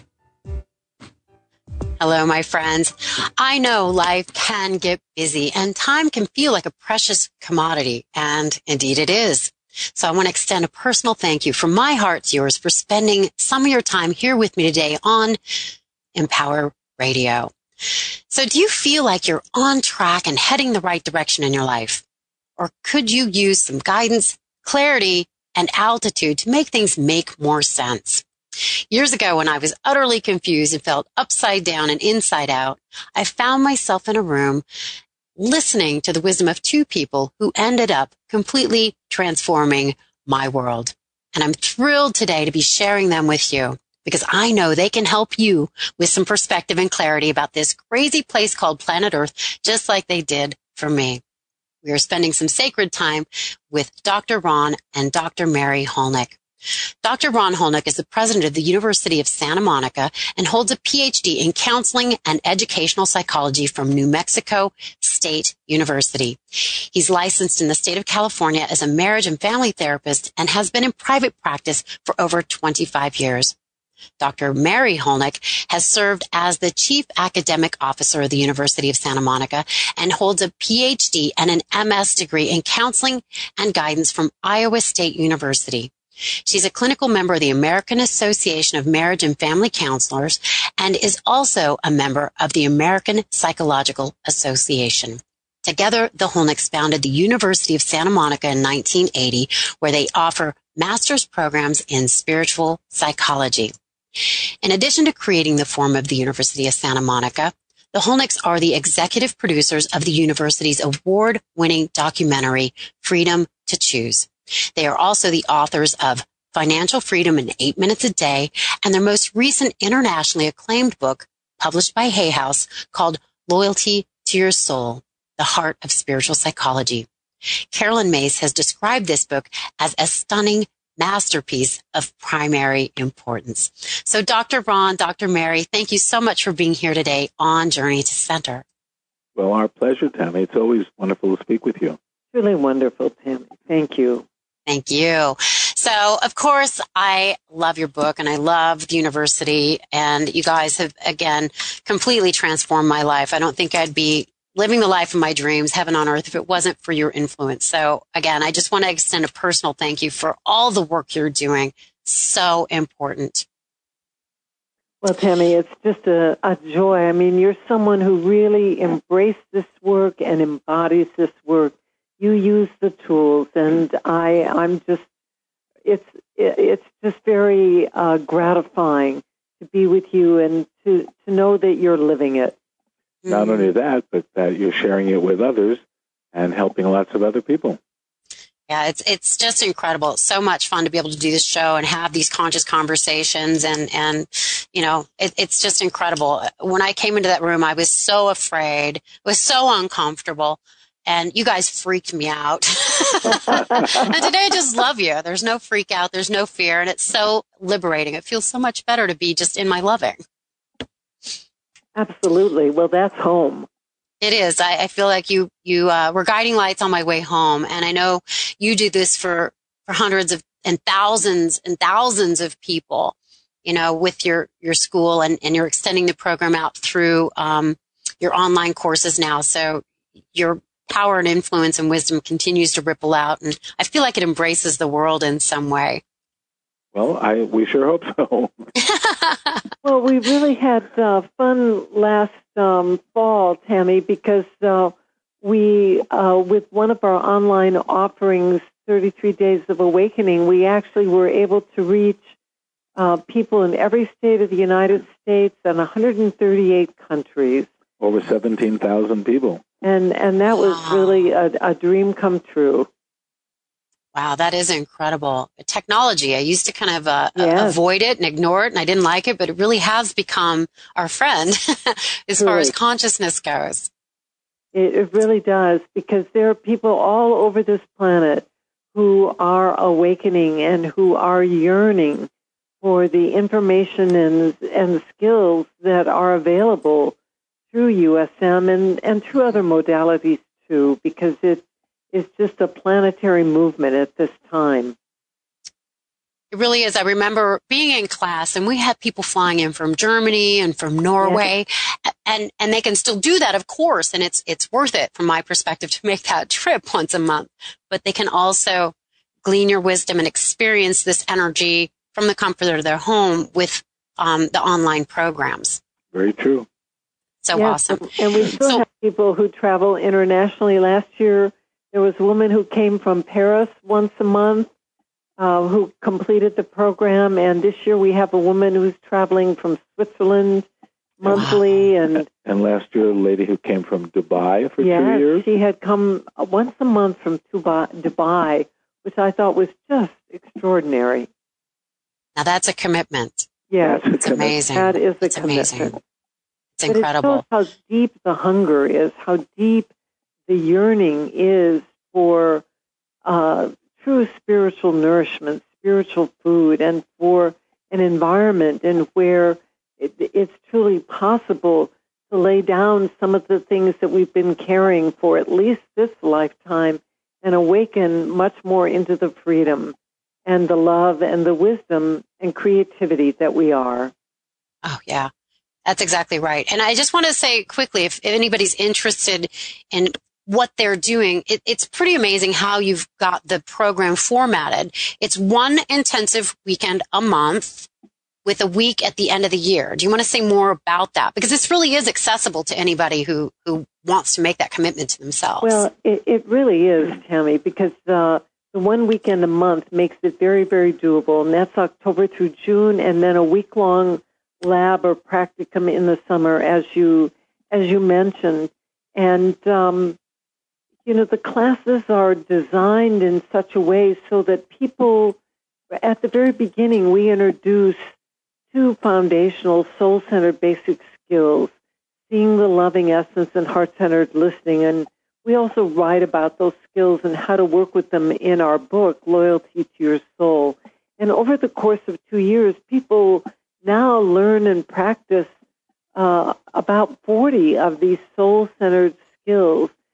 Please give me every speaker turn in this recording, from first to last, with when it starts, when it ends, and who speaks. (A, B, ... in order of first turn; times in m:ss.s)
0:02.0-0:15.4 A
0:16.1-0:22.0 A
0:22.6-0:28.2 A
0:28.9-0:34.6 A
0:35.4-0:51.2 A
0:51.8-0:56.4 A
0:57.0-1:13.5 A
1:14.2-1:25.9 A
1:26.4-2:07.1 A
2:07.7-2:18.6 A
2:19.4-2:22.0 B
2:22.3-2:24.2 C
2:24.7-2:43.4 A
2:45.0-2:55.1 C
2:55.8-3:02.6 C
3:03.2-3:03.7 A
3:03.3-3:05.8 B
3:06.3-3:07.8 B
3:08.7-3:30.2 A
3:23.3-3:24.1 C
3:32.0-3:33.7 C
3:34.2-3:56.0 A
3:56.9-3:58.7 B
3:58.9-3:59.4 A
3:59.8-4:12.2 C
4:13.0-4:17.7 C
4:18.0-4:19.6 B
4:19.8-4:22.9 C
4:20.5-4:21.3 A
4:24.1-4:33.9 A
4:27.4-4:27.8 C
4:32.4-4:32.7 C
4:34.7-4:42.3 C
4:42.8-4:47.1 C
4:47.7-4:55.0 C
4:56.5-5:15.8 A
5:01.2-5:01.4 C
5:16.1-5:16.7 B
5:17.4-5:18.8 A
5:17.5-5:24.7 C
5:25.4-5:30.7 C
5:31.2-5:32.3 C
5:31.2-5:31.9 A
5:32.3-5:35.4 B
5:34.8-5:41.3 C
5:42.4-5:43.5 A
5:43.7-5:46.0 C
5:43.8-5:44.6 B
5:44.2-5:46.0 A
5:46.8-5:47.4 A
5:46.9-5:49.9 C
5:50.5-5:52.6 C
5:53.2-6:09.9 C
6:10.4-6:14.1 C
6:14.8-6:15.3 A
6:15.8-6:27.9 A
6:28.4-6:35.8 A
6:35.6-6:50.2 C
6:51.0-6:55.4 C
6:55.9-6:58.1 C
6:58.7-7:01.7 C
7:02.3-7:15.5 C
7:16.1-7:19.9 C